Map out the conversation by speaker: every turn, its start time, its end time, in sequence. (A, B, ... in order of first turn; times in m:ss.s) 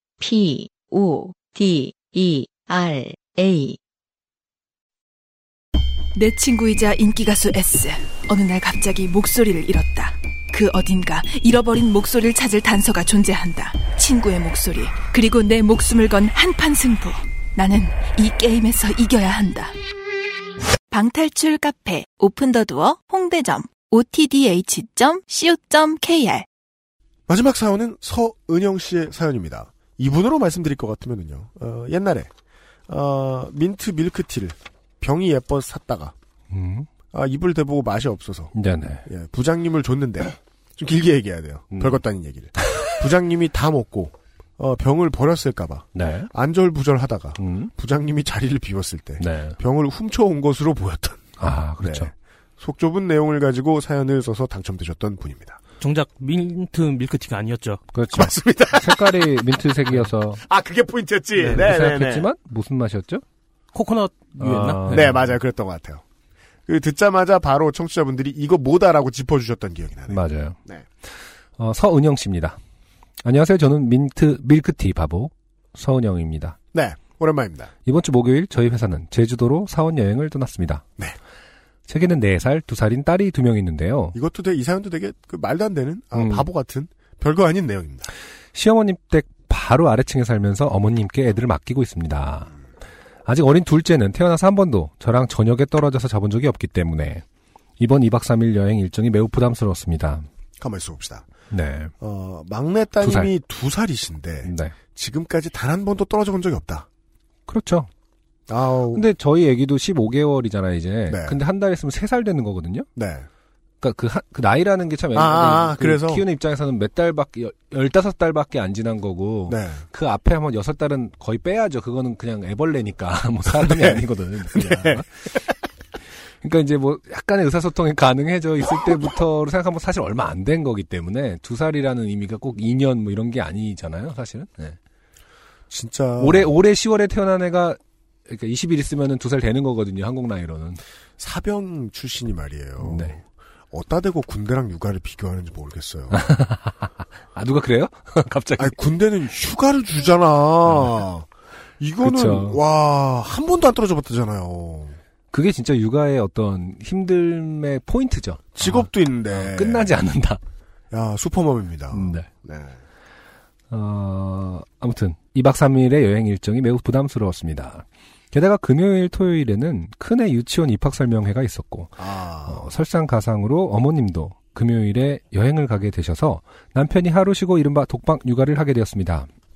0:00.2-0:03.8 A
0:06.1-0:19.7 B
0:20.9-0:26.5 B
0:27.3-0:32.3 C
0:32.9-0:36.1 C
0:36.5-0:36.9 D
0:37.1-0:38.5 C
0:38.5-0:39.0 D
0:39.0-0:55.6 C
0:41.7-0:42.0 D
0:42.6-0:42.9 D
0:45.9-0:46.3 D
0:47.4-0:47.7 D
0:49.2-0:49.6 D
0:51.4-0:52.1 D
0:55.8-0:57.8 E
0:57.9-1:00.4 D
0:58.1-0:59.2 C
1:00.4-1:02.3 C
1:01.4-1:03.2 D
1:03.7-1:05.0 E
1:04.4-1:05.3 D
1:04.9-1:06.0 C
1:06.7-1:10.8 C
1:10.1-1:12.6 D
1:13.2-1:16.6 D
1:16.7-1:17.7 C
1:17.8-1:20.8 D
1:21.9-1:24.2 D
1:24.1-1:28.1 C
1:26.1-1:26.5 D
1:28.5-1:32.5 D
1:33.2-1:37.2 D
1:37.8-1:40.2 D
1:40.6-1:41.3 C
1:41.5-1:41.9 D
1:42.0-1:46.9 C
1:43.0-1:43.3 D
1:44.4-1:44.7 D
1:47.5-1:47.9 D
1:48.5-1:49.0 C
1:48.9-1:52.9 D
1:51.1-1:51.4 C
1:53.0-1:53.3 C
1:53.8-2:05.2 D
1:55.1-1:56.2 C
1:59.5-1:59.8 C
2:03.5-2:04.0 C
2:04.5-2:05.0 C
2:06.4-2:14.8 D
2:15.7-2:16.5 C
2:16.2-2:20.8 D
2:21.2-2:26.2 C
2:22.8-2:23.2 D
2:26.1-2:28.7 D
2:28.6-2:31.3 C
2:31.8-2:35.0 C
2:32.0-2:32.6 D
2:35.3-2:40.4 D
2:38.5-2:39.9 C
2:40.9-2:42.8 C
2:41.9-2:42.3 D
2:43.7-2:59.3 D
2:52.0-2:52.6 C